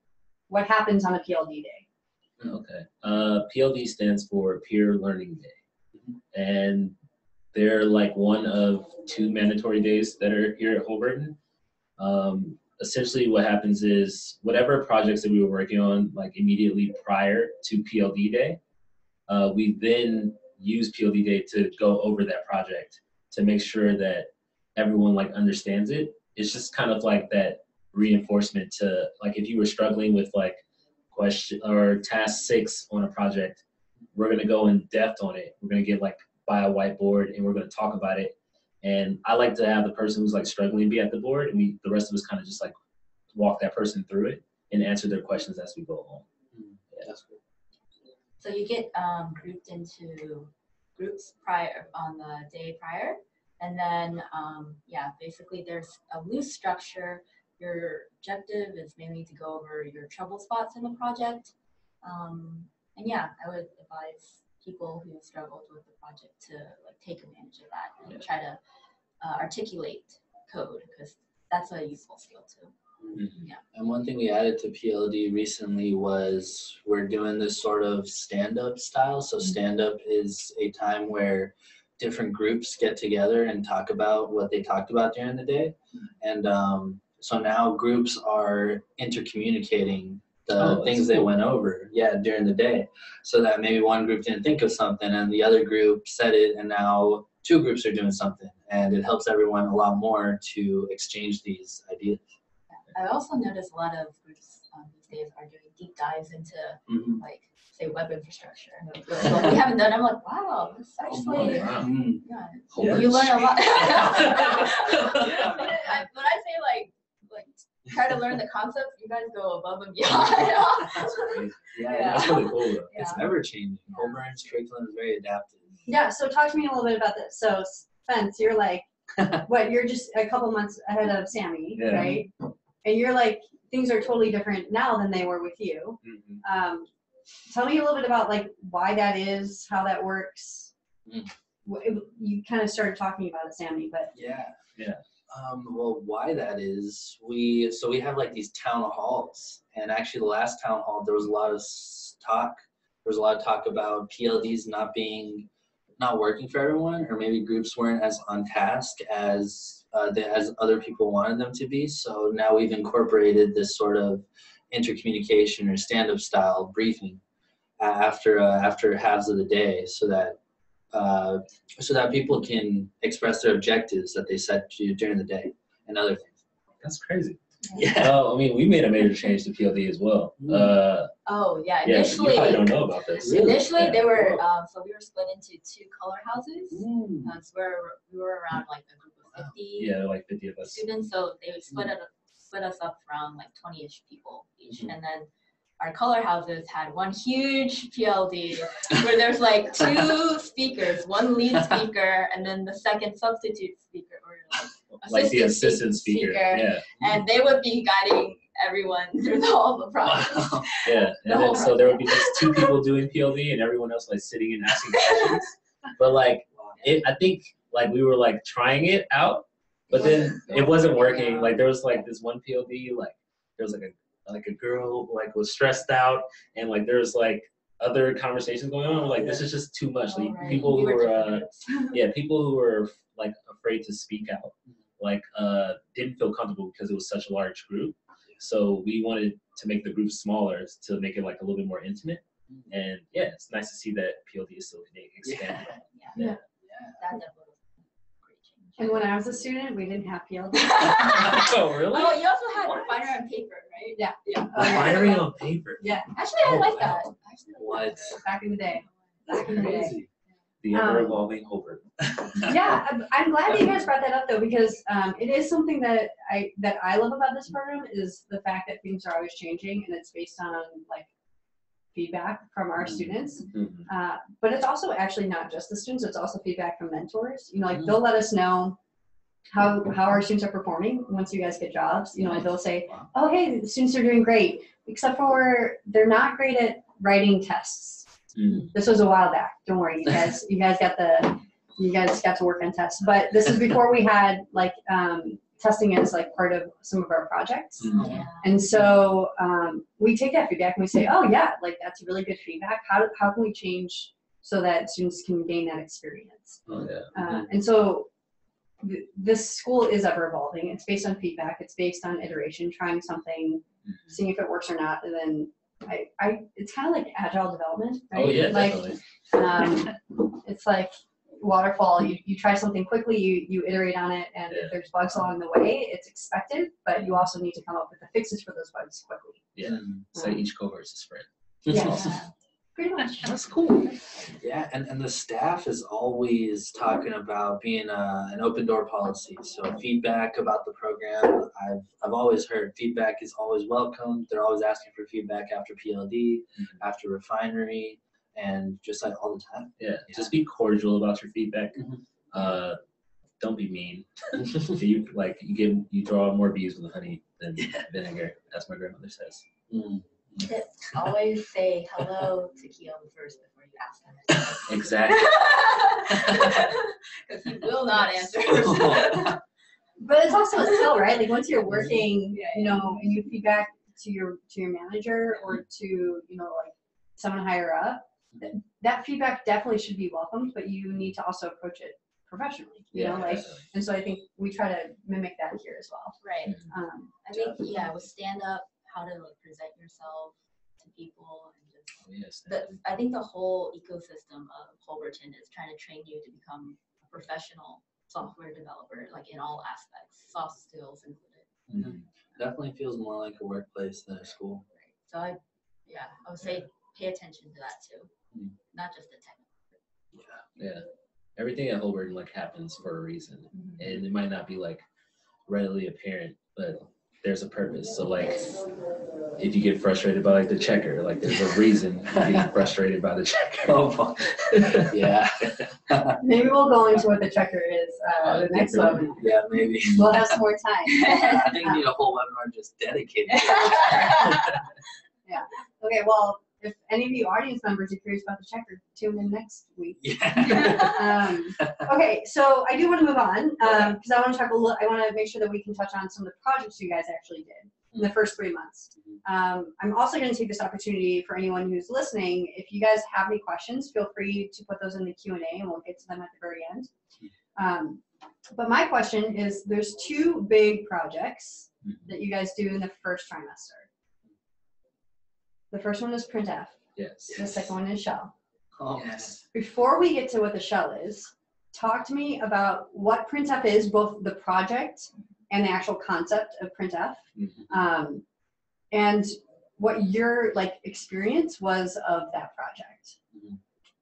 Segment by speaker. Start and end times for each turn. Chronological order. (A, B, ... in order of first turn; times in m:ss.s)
0:00.5-0:01.8 A
0:02.5-0:05.6 B
0:06.3-0:06.9 B
0:07.5-0:11.4 B
0:12.0-0:18.6 B
0:19.3-0:42.7 B
0:43.3-0:46.3 B
0:46.5-0:47.4 C
0:48.4-1:08.6 D
1:09.2-1:12.7 D
1:13.1-1:13.5 B
1:13.7-1:42.2 C
1:30.6-1:31.3 B
1:42.8-2:03.3 D
1:46.9-1:47.2 C
1:49.2-1:49.5 C
1:51.0-1:52.2 C
1:51.2-1:52.0 B
1:52.7-1:55.7 B
1:52.8-1:55.8 C
2:01.1-2:03.2 B
2:01.7-2:05.7 C
2:03.9-2:04.2 D
2:05.8-2:08.8 A
2:09.4-2:12.3 A
2:11.7-2:12.2 B
2:12.8-2:16.9 A
2:16.0-2:16.4 B
2:17.4-2:20.7 A
2:21.0-2:21.3 C
2:21.6-2:24.1 A
2:24.1-2:24.5 C
2:24.8-2:25.0 B
2:25.3-2:35.5 C
2:36.0-2:47.2 C
2:47.8-2:50.4 C
2:50.9-2:56.4 C
2:56.8-2:57.4 B
2:57.6-2:57.9 D
2:57.7-2:58.2 C
2:57.9-3:01.1 B
3:00.4-3:00.7 C
3:01.2-3:09.9 D
3:01.8-3:04.4 B
3:03.2-3:03.7 C
3:06.7-3:07.3 C
3:09.8-3:10.8 B
3:10.6-3:15.3 D
3:15.8-3:32.7 D
3:24.9-3:26.8 B
3:30.0-3:30.7 C
3:30.8-4:06.4 B
3:34.9-3:35.4 D
3:36.5-3:37.0 C
3:39.9-3:41.6 D
3:40.0-3:40.3 C
3:49.0-3:49.5 C
3:50.0-3:52.0 D
3:50.4-3:50.7 C
4:05.2-4:05.8 C
4:05.9-4:06.2 D
4:06.6-4:07.0 C
4:07.0-4:09.1 D
4:08.8-4:11.5 A
4:10.5-4:14.0 D
4:11.1-4:12.2 B
4:12.6-4:13.0 A
4:13.9-4:16.1 A
4:14.5-4:17.0 B
4:14.6-4:15.0 D
4:16.1-4:19.9 D
4:17.6-4:18.2 C
4:18.2-4:20.0 A
4:19.3-4:20.1 C
4:20.6-4:21.8 B
4:20.7-4:21.2 A
4:22.1-4:22.6 C
4:22.4-4:31.1 A
4:31.9-4:38.8 A
4:33.5-4:33.9 B
4:39.5-4:48.1 A
4:48.4-4:48.7 B
4:48.7-5:08.1 A
4:57.8-4:58.2 B
4:57.9-4:58.2 C
4:58.0-4:58.6 D
5:06.7-5:07.1 B
5:08.8-5:29.4 A
5:18.1-5:19.0 B
5:24.5-5:24.8 B
5:29.6-5:32.2 B
5:29.6-5:30.0 C
5:30.1-5:30.4 A
5:31.6-5:32.2 C
5:31.7-5:32.2 A
5:31.8-5:32.2 D
5:32.8-5:33.3 A
5:33.2-5:33.9 B
5:34.4-5:50.3 C
5:49.8-5:52.8 B
5:53.4-5:59.4 B
5:54.4-5:54.7 C
5:57.6-5:57.8 C
5:59.7-6:00.5 C
6:00.4-6:09.4 D
6:04.7-6:05.4 B
6:06.1-6:06.7 C
6:08.4-6:09.4 C
6:10.0-6:27.4 A
6:12.3-6:13.1 D
6:22.9-6:23.6 B
6:26.2-6:26.6 D
6:27.2-6:41.5 D
6:32.0-6:32.8 B
6:41.7-6:44.6 C
6:41.7-6:42.0 B
6:44.8-6:48.1 D
6:48.7-6:49.8 D
6:50.1-6:50.4 C
6:50.6-6:50.8 B
6:51.4-6:54.8 B
6:53.5-6:54.0 D
6:55.5-6:58.5 B
6:58.2-6:58.6 D
6:59.4-7:05.1 B
7:02.2-7:02.5 C
7:03.6-7:06.2 C
7:06.2-7:09.2 A
7:08.2-7:09.1 B
7:09.1-7:10.4 C
7:09.9-7:11.8 A
7:11.0-7:14.6 C
7:11.0-7:11.4 D
7:13.3-7:14.6 D
7:13.6-7:14.3 A
7:15.2-7:36.9 A
7:20.0-7:21.8 C
7:20.5-7:20.9 D
7:37.6-7:38.0 A
7:38.5-7:43.9 A
7:45.7-7:46.8 A
7:47.0-7:47.4 B
7:47.3-7:47.6 C
7:47.3-7:48.3 A
7:48.8-7:49.4 C
7:49.5-7:58.2 A
7:57.4-7:57.7 B
7:58.9-8:03.2 A